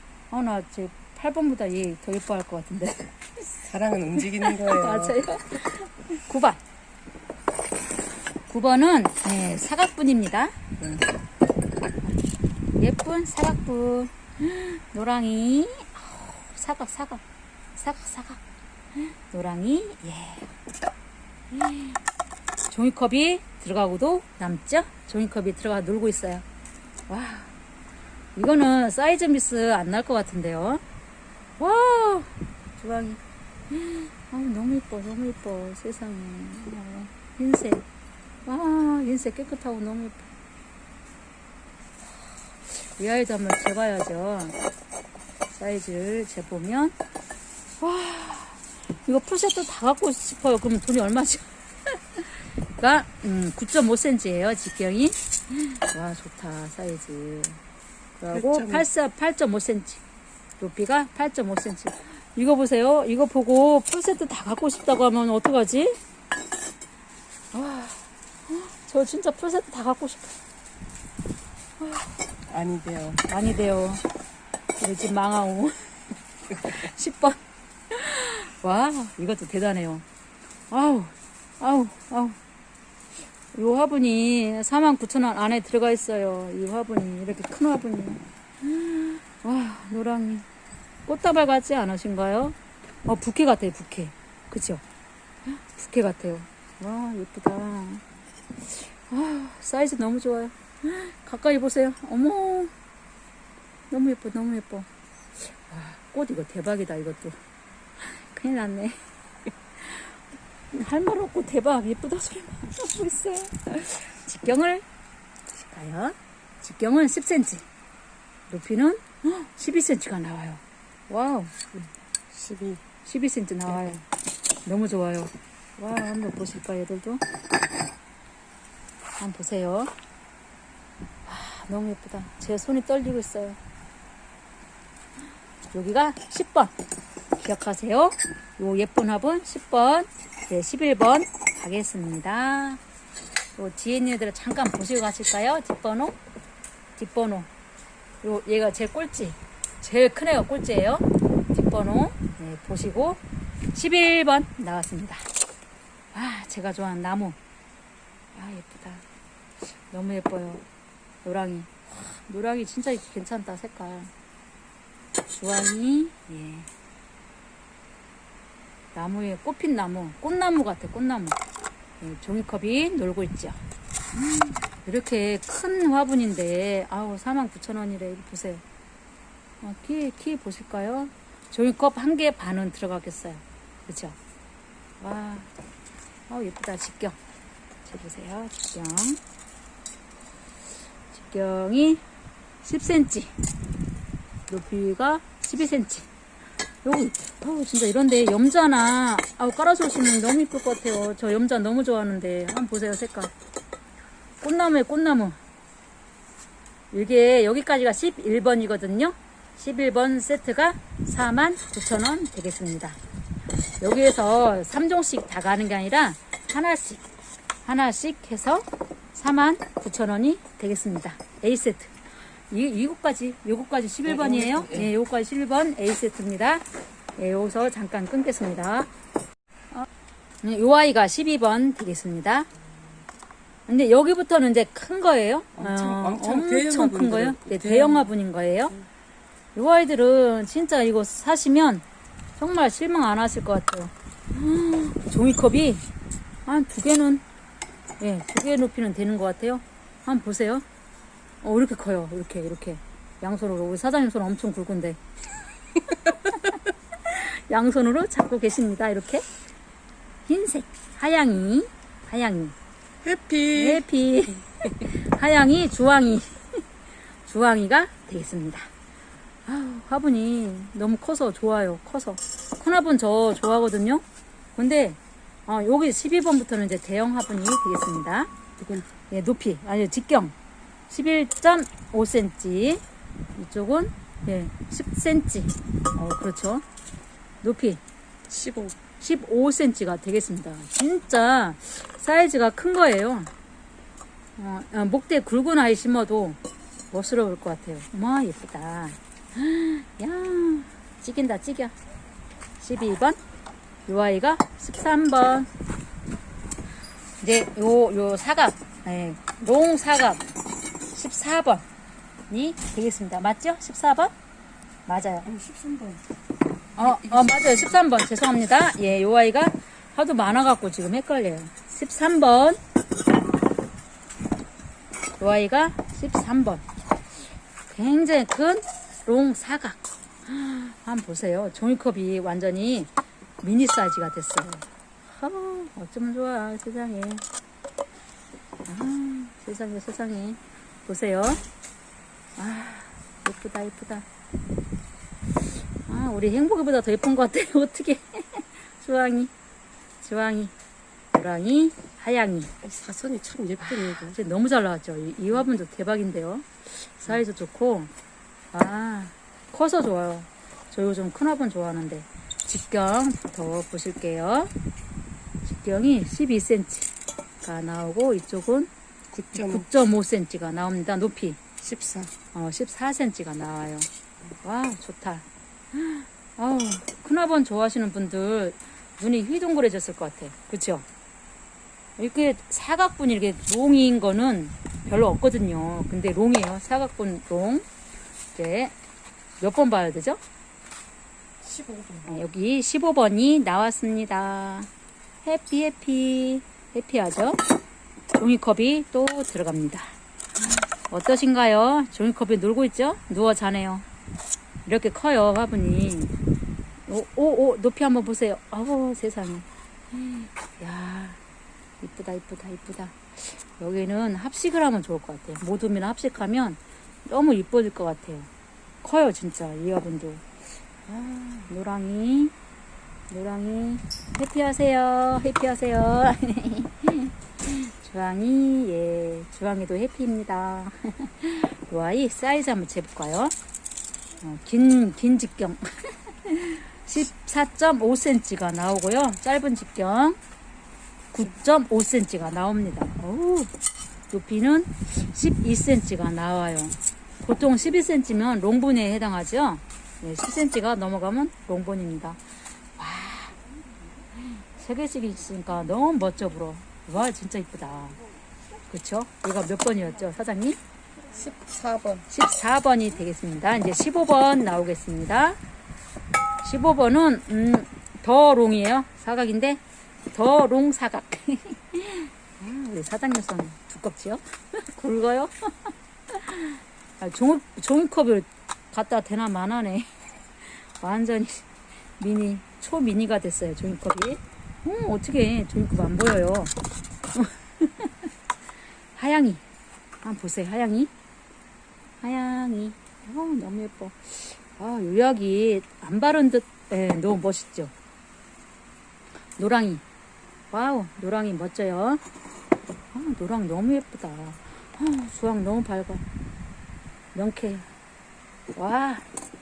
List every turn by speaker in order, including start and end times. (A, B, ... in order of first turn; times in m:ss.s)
0:00.3-0:03.6 A
0:03.6-0:05.2 B
0:04.4-0:06.6 A
0:08.5-0:11.1 A
0:12.8-0:17.2 A
0:17.8-0:18.4 A
0:19.3-0:20.5 A
0:21.5-0:22.0 A
0:22.7-0:26.4 A
0:27.1-0:27.5 A
0:28.4-0:30.8 A
0:31.6-0:33.2 A
0:33.7-0:37.8 A
0:38.5-0:40.3 A
0:42.7-0:44.6 A
0:45.6-0:47.0 A
0:47.8-0:57.6 A
0:58.2-1:00.0 A
0:58.3-0:58.9 B
1:00.6-1:06.0 A
1:07.5-1:10.4 A
1:11.8-1:12.1 A
1:12.5-1:13.2 B
1:13.3-1:14.0 A
1:14.8-1:17.4 A
1:17.9-1:20.0 A
1:20.7-1:22.4 A
1:23.5-1:30.5 A
1:31.1-1:34.8 A
1:35.5-1:38.0 A
1:38.6-1:42.7 A
1:43.9-1:44.9 A
1:45.4-1:47.4 A
1:48.0-1:49.0 A
1:49.8-1:50.2 A
1:50.7-1:54.8 A
1:55.6-1:57.7 A
1:58.5-2:01.6 A
2:01.7-2:02.8 B
2:03.0-2:04.0 A
2:04.6-2:07.2 A
2:09.2-2:09.9 A
2:11.3-2:13.6 A
2:15.7-2:16.7 A
2:17.4-2:22.8 A
2:23.6-2:26.2 A
2:27.0-2:27.5 A
2:28.2-2:33.2 A
2:33.7-2:35.3 A
2:36.1-2:37.4 A
2:38.3-2:39.0 A
2:39.8-2:40.6 A
2:41.2-2:44.1 A
2:45.3-2:46.7 A
2:48.9-2:51.4 A
2:52.0-2:53.6 A
2:54.1-2:58.6 A
2:59.6-3:04.2 A
3:05.0-3:05.5 A
3:06.3-3:07.2 A
3:07.8-3:09.2 A
3:11.1-3:12.0 A
3:12.6-3:13.4 A
3:14.5-3:16.1 A
3:16.8-3:23.3 A
3:24.4-3:25.4 A
3:26.9-3:33.0 A
3:33.8-3:37.0 A
3:37.6-3:42.0 A
3:42.5-3:46.6 A
3:44.1-3:44.9 B
3:47.2-3:48.9 A
3:50.4-3:52.5 A
3:53.7-3:58.8 A
3:55.6-3:58.1 B
3:59.6-4:01.8 A
4:02.4-4:05.8 A
4:06.5-4:07.2 A
4:08.0-4:10.6 A
4:11.4-4:15.0 A
4:15.9-4:19.3 A
4:20.3-4:22.6 A
4:23.0-4:23.8 B
4:23.5-4:26.6 A
4:27.2-4:28.7 A
4:29.5-4:34.0 A
4:34.6-4:38.3 A
4:38.6-4:38.9 B
4:39.1-4:40.3 A
4:40.9-4:42.8 A
4:43.4-4:46.6 A
4:47.4-4:47.8 A
4:48.3-4:48.8 B
4:49.0-4:53.3 A
4:54.4-4:56.4 A
4:56.9-5:01.7 A
5:02.6-5:03.2 A
5:03.9-5:05.5 A
5:07.2-5:10.2 A
5:10.9-5:11.7 A
5:12.3-5:14.1 A
5:14.9-5:15.3 A
5:15.2-5:16.0 B
5:16.8-5:22.6 A
5:16.8-5:17.5 B
5:25.2-5:26.6 A
5:27.7-5:32.9 A
5:33.4-5:37.2 A
5:38.7-5:41.4 A
5:42.4-5:44.1 A
5:45.9-5:49.3 A
5:50.0-5:50.5 A
5:51.1-5:52.5 A
5:52.6-5:54.2 B
5:53.6-5:57.9 A
5:58.5-6:04.5 A
6:05.4-6:06.9 A
6:07.4-6:08.7 A
6:09.1-6:09.6 B
6:09.3-6:11.4 A
6:11.6-6:12.1 B
6:12.3-6:13.9 A
6:14.4-6:20.9 A
6:22.0-6:27.6 A
6:28.4-6:28.7 A
6:29.4-6:30.2 A
6:31.4-6:32.2 B
6:32.1-6:34.7 A
6:35.2-6:37.4 A
6:38.1-6:39.9 A
6:40.9-6:43.8 A
6:44.6-6:46.1 A
6:46.9-6:51.2 A
6:51.8-6:58.3 A
6:58.8-7:00.2 A
7:00.9-7:02.3 A
7:03.1-7:13.3 A
7:14.2-7:20.2 A
7:21.1-7:23.5 A
7:24.1-7:32.2 A
7:32.8-7:33.4 A
7:34.6-7:38.0 A
7:38.7-7:40.6 A
7:41.1-7:42.1 B
7:42.1-7:45.4 A
7:46.4-7:49.6 A
7:50.1-7:59.9 A
8:00.4-8:06.5 A
8:07.1-8:08.1 A
8:09.0-8:09.4 A
8:10.0-8:10.9 A
8:12.0-8:17.7 A
8:19.4-8:19.8 A
8:20.5-8:22.0 A
8:22.9-8:26.0 A
8:27.2-8:27.7 A
8:28.6-8:29.1 A